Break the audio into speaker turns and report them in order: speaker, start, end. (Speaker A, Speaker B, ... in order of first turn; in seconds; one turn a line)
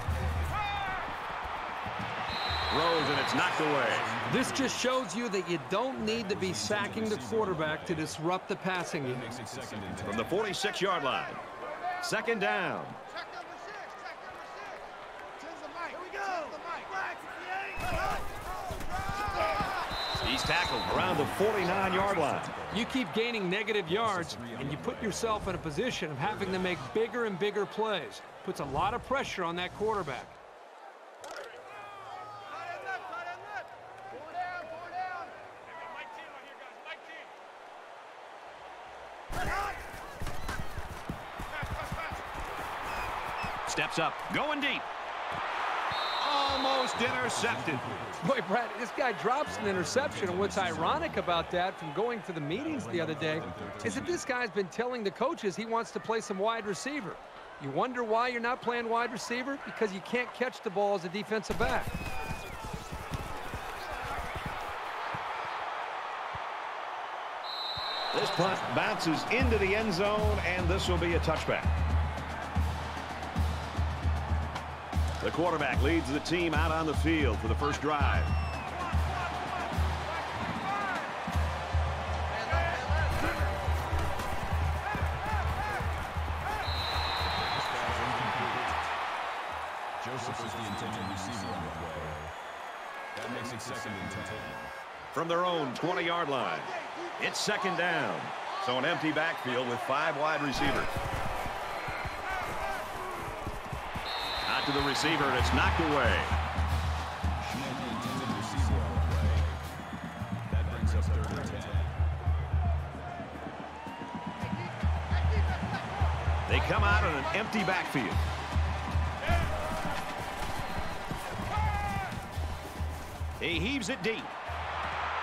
Speaker A: 2.7-4.1
Speaker B: 3.1-5.0
Speaker C: 4.2-9.3
Speaker B: 6.1-8.2
Speaker B: 9.1-10.4
Speaker A: 10.0-11.4
Speaker A: 12.0-13.0
Speaker A: 20.2-22.5
Speaker B: 21.0-21.4
Speaker B: 22.3-22.9
Speaker C: 22.7-30.4
Speaker B: 23.9-25.4
Speaker A: 43.6-44.9
Speaker A: 46.2-47.8
Speaker B: 47.1-48.3
Speaker C: 48.2-61.9
Speaker B: 49.5-51.6
Speaker B: 52.5-54.3
Speaker A: 68.1-71.7
Speaker A: 75.2-78.3
Speaker B: 87.2-88.9
Speaker B: 90.0-92.3
Speaker B: 93.1-94.7
Speaker A: 95.1-100.9
Speaker A: 104.5-106.3
Speaker B: 107.4-109.7
Speaker B: 110.5-112.0
Speaker A: 116.5-118.2
Speaker A: 123.4-124.3